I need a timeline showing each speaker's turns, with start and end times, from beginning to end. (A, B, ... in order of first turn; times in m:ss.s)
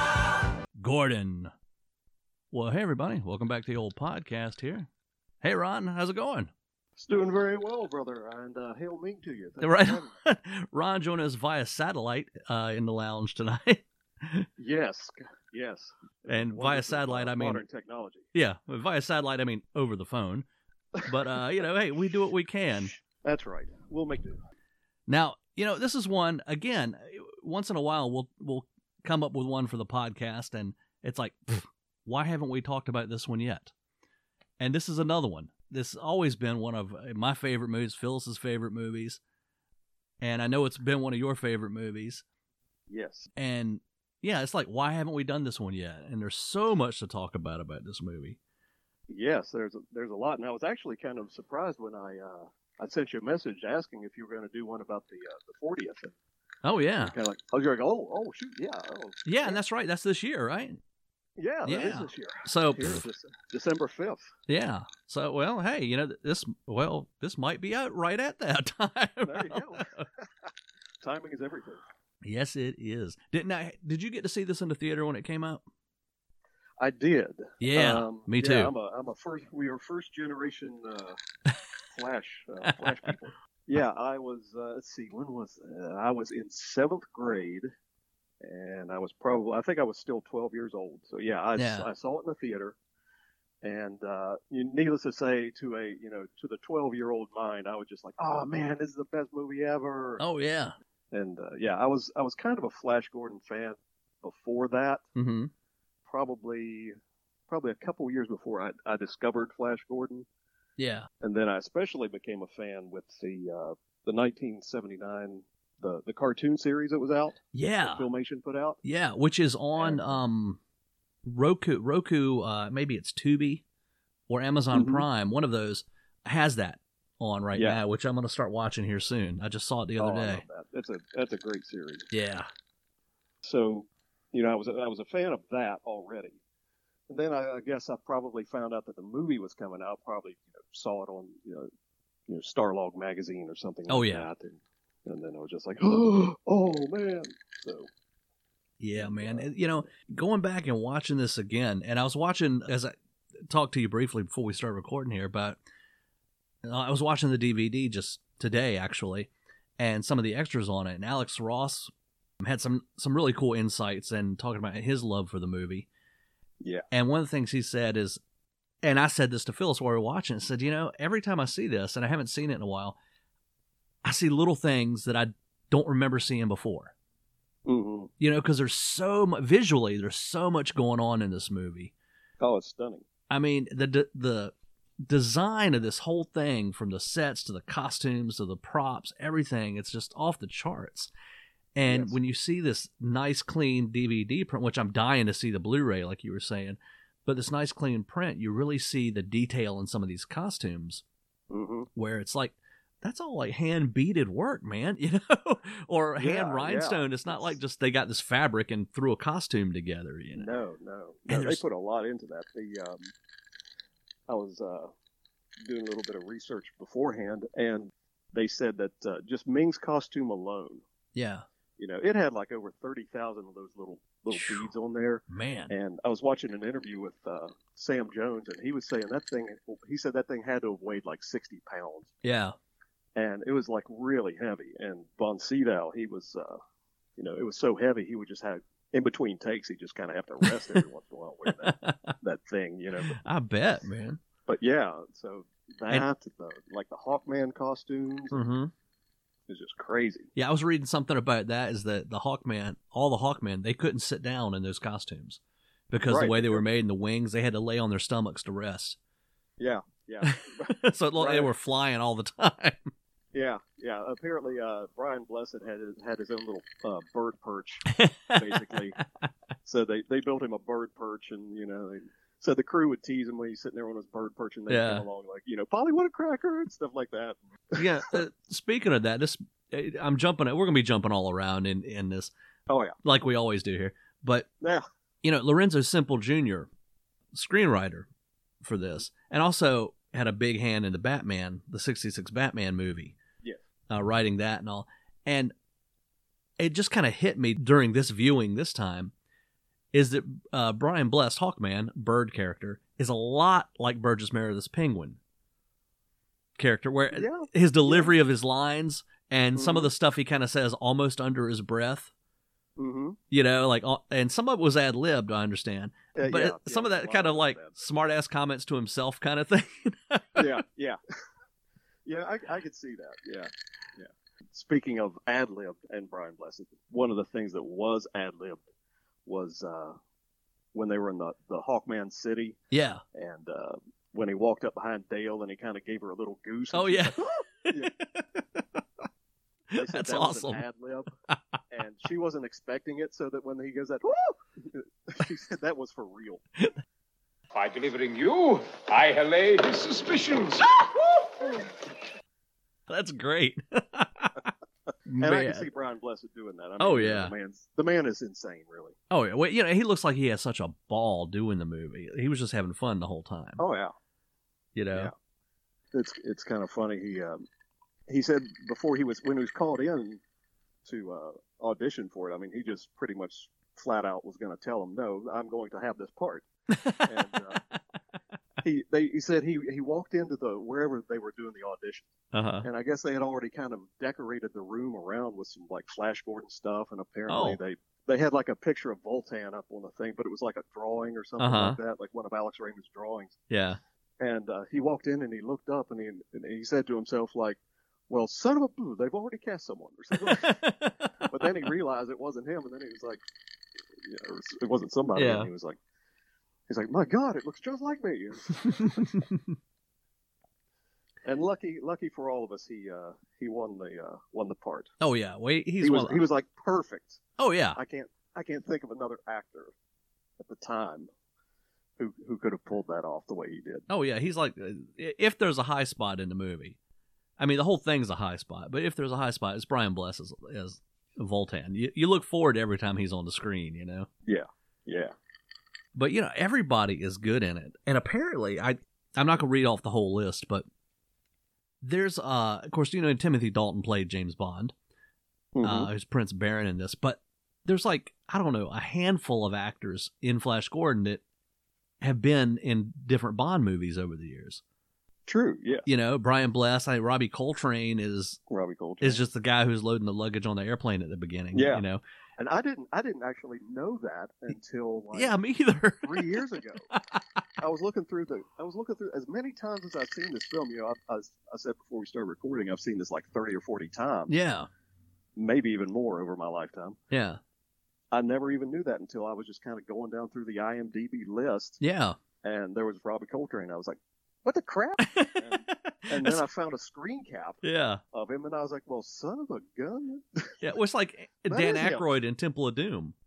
0:00.8-0:01.5 A
0:02.5-0:04.9 A
0:05.4-0:06.5 A
0:07.0-0:10.1 B
0:09.6-0:14.5 A
0:14.6-0:18.3 B
0:16.3-0:17.6 A
0:18.3-0:20.5 A
0:21.0-0:22.9 A
0:23.0-0:24.4 B
0:25.1-0:33.7 A
0:34.6-0:39.2 A
0:40.2-0:42.2 A
0:42.9-0:43.3 B
0:43.4-0:48.4 A
0:49.1-0:56.1 B
0:56.6-0:57.1 A
0:57.0-0:59.6 B
0:59.2-1:00.8 A
1:01.4-1:04.3 B
1:01.6-1:03.0 A
1:04.5-1:10.0 A
1:09.2-1:10.3 B
1:11.0-1:11.8 B
1:12.2-1:15.6 A
1:16.8-1:21.2 B
1:17.6-1:18.7 A
1:21.9-1:27.7 B
1:22.6-1:23.0 A
1:28.4-1:32.8 B
1:31.6-1:31.9 A
1:33.6-1:40.2 B
1:40.2-1:40.7 A
1:41.1-1:45.0 B
1:45.1-1:45.5 A
1:46.1-1:46.9 B
1:47.5-1:50.3 B
1:50.8-1:51.1 A
1:51.2-1:58.8 B
1:57.5-1:58.0 A
1:58.8-2:00.6 A
1:59.8-2:00.2 B
2:01.2-2:03.6 A
2:04.3-2:10.4 A
2:04.7-2:05.0 B
2:07.5-2:07.8 B
2:10.0-2:12.1 B
2:12.1-2:12.5 A
2:13.4-2:16.4 B
2:17.1-2:21.7 B
2:22.3-2:27.9 B
2:23.9-2:24.3 A
2:28.8-2:35.6 A
2:29.0-2:29.5 B
2:36.6-2:45.9 A
2:46.9-2:48.2 A
2:48.8-2:53.0 A
2:54.0-2:56.9 A
2:57.6-2:58.1 B
2:58.2-3:01.9 A
3:02.4-3:03.0 B
3:03.3-3:11.1 A
3:11.8-3:21.0 A
3:11.8-3:12.2 B
3:21.5-3:21.9 B
3:21.9-3:30.5 A
3:26.2-3:27.6 B
3:30.3-3:33.1 B
3:31.3-3:31.6 A
3:34.3-3:34.9 B
3:35.6-3:40.8 B
3:41.1-3:41.4 A
3:41.8-3:52.1 B
3:44.3-3:44.7 A
3:45.3-3:45.7 A
3:52.2-3:52.6 A
3:53.2-3:56.6 B
3:57.2-4:03.2 B
4:01.6-4:02.1 A
4:03.1-4:04.2 A
4:04.5-4:08.4 B
4:08.3-4:08.7 A
4:09.5-4:10.3 B
4:10.3-4:19.0 A
4:16.1-4:16.6 B
4:19.6-4:21.5 B
4:20.2-4:22.9 A
4:23.3-4:29.0 B
4:27.9-4:28.8 A
4:29.6-4:38.1 B
4:34.7-4:35.0 A
4:37.7-4:42.3 A
4:42.7-4:43.0 B
4:43.0-4:44.5 A
4:45.2-4:46.7 A
4:47.3-4:48.1 A
4:48.6-4:53.2 A
4:53.9-4:55.5 A
4:56.6-4:59.1 A
4:59.9-5:05.2 A
5:06.6-5:12.1 A
5:07.1-5:08.1 B
5:09.5-5:09.9 B
5:12.8-5:13.2 B
5:13.3-5:20.6 A
5:16.1-5:17.8 B
5:20.3-5:21.0 B
5:22.0-5:28.7 B
5:29.2-5:30.0 B
5:30.7-5:32.6 B
5:32.7-5:33.0 A
5:33.1-5:37.9 B
5:36.7-5:38.8 A
5:39.7-5:40.6 A
5:39.7-5:41.1 B
5:41.3-5:41.6 A
5:41.7-5:46.4 B
5:47.5-5:51.7 C
5:52.9-5:54.5 A
5:55.1-5:55.7 A
5:55.2-5:59.0 B
5:56.8-5:57.3 A
5:59.1-6:03.6 A
6:03.6-6:03.9 B
6:04.7-6:05.1 A
6:05.9-6:07.4 B
6:08.1-6:10.2 B
6:10.8-6:17.6 B
6:16.7-6:17.8 A
6:18.6-6:22.1 B
6:22.3-6:22.6 A
6:22.6-6:33.4 B
6:27.3-6:27.6 A
6:31.4-6:31.8 A
6:33.5-6:33.8 A
6:34.2-6:40.6 B
6:40.1-6:41.3 A
6:41.2-6:43.2 B
6:43.9-6:45.8 B
6:45.2-6:45.5 A
6:46.7-6:49.1 B
6:48.6-6:49.5 A
6:51.2-6:54.9 B
6:55.0-6:56.2 A
6:55.8-6:57.2 B
6:57.4-6:57.8 A
6:57.7-6:59.7 B
7:00.4-7:01.1 B
7:02.0-7:03.8 B
7:03.9-7:06.8 A
7:07.4-7:14.1 A
7:14.2-7:15.1 B
7:15.9-7:20.6 A
7:21.8-7:24.7 A
7:25.5-7:25.9 B
7:25.6-7:31.2 A
7:32.0-7:34.6 A
7:35.3-7:35.8 B
7:35.8-7:38.4 A
7:38.5-7:39.2 B
7:39.0-7:42.0 A
7:41.5-7:41.8 B
7:42.4-7:45.4 B
7:45.1-7:47.4 A
7:46.0-7:46.9 B
7:47.6-7:54.4 B
7:54.3-7:54.7 A
7:55.4-7:57.0 B
7:57.1-7:57.4 A
7:58.1-8:01.8 B
8:01.8-8:02.2 A
8:02.4-8:10.5 B
8:05.2-8:06.4 A
8:07.6-8:08.0 A
8:10.6-8:13.2 A
8:11.5-8:12.1 B